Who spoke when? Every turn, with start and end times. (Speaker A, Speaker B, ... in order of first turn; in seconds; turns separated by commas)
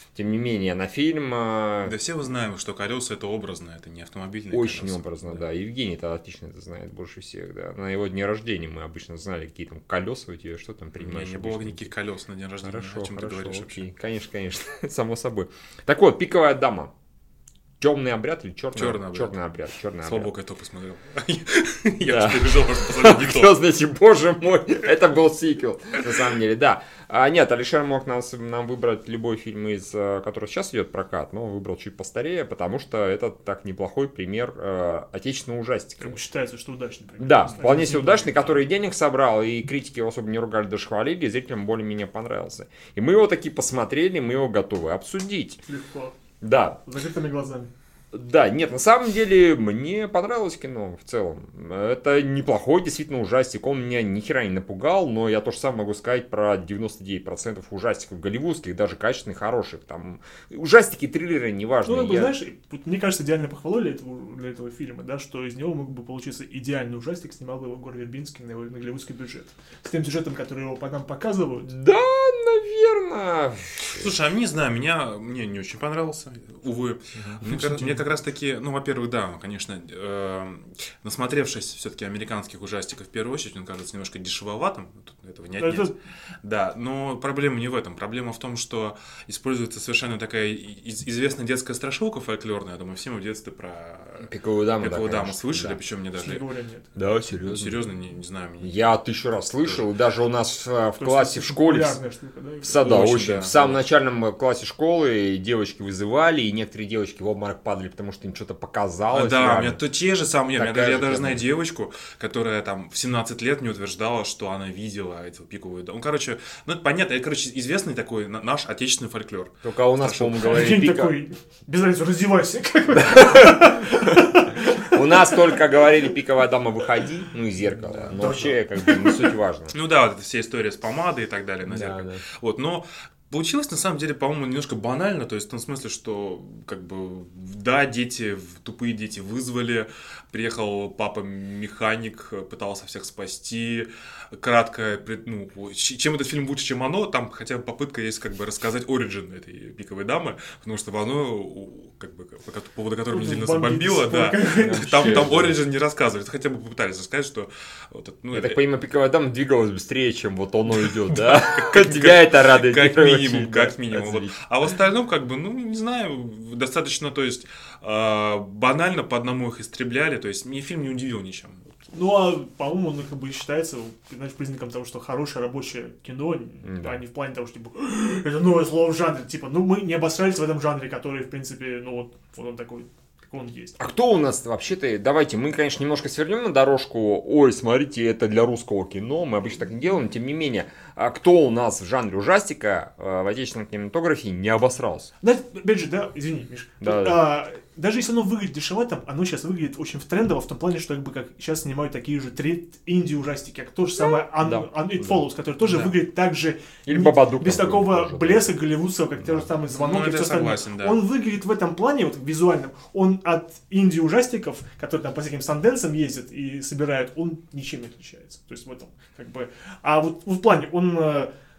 Speaker A: 0.1-2.0, Speaker B: 1.9-5.4, Speaker A: 4.5-11.9, Speaker B: 11.0-13.8, Speaker A: 12.6-16.9, Speaker A: 17.8-20.3, Speaker B: 18.7-19.4, Speaker B: 20.0-23.6, Speaker A: 22.0-36.2, Speaker C: 36.0-38.6, Speaker A: 37.2-45.6, Speaker C: 45.7-46.1, Speaker A: 46.4-46.8, Speaker C: 46.8-47.7, Speaker A: 48.1-62.4, Speaker C: 61.9-71.8, Speaker A: 71.7-74.1, Speaker B: 74.0-96.5, Speaker A: 77.2-77.8, Speaker C: 85.6-86.0, Speaker A: 94.2-95.8, Speaker C: 96.2-96.9, Speaker A: 97.0-97.9, Speaker B: 97.4-98.9, Speaker A: 98.6-102.0, Speaker C: 101.0-103.0, Speaker A: 102.6-109.8, Speaker B: 102.8-103.8, Speaker B: 109.1-120.6, Speaker A: 110.5-111.5, Speaker A: 119.6-121.2, Speaker C: 120.3-125.7, Speaker A: 123.0-123.7, Speaker A: 124.9-129.8, Speaker C: 128.0-129.4, Speaker B: 129.7-158.6, Speaker A: 131.7-132.2, Speaker C: 153.1-155.4, Speaker A: 154.6-155.6, Speaker A: 158.3-164.3, Speaker B: 160.7-171.9, Speaker C: 171.9-183.8, Speaker A: 176.6-177.0, Speaker A: 183.8-195.1, Speaker C: 195.2-221.3, Speaker A: 196.8-197.3, Speaker A: 204.0-205.2, Speaker B: 205.6-205.9, Speaker A: 206.9-208.6, Speaker B: 209.8-211.0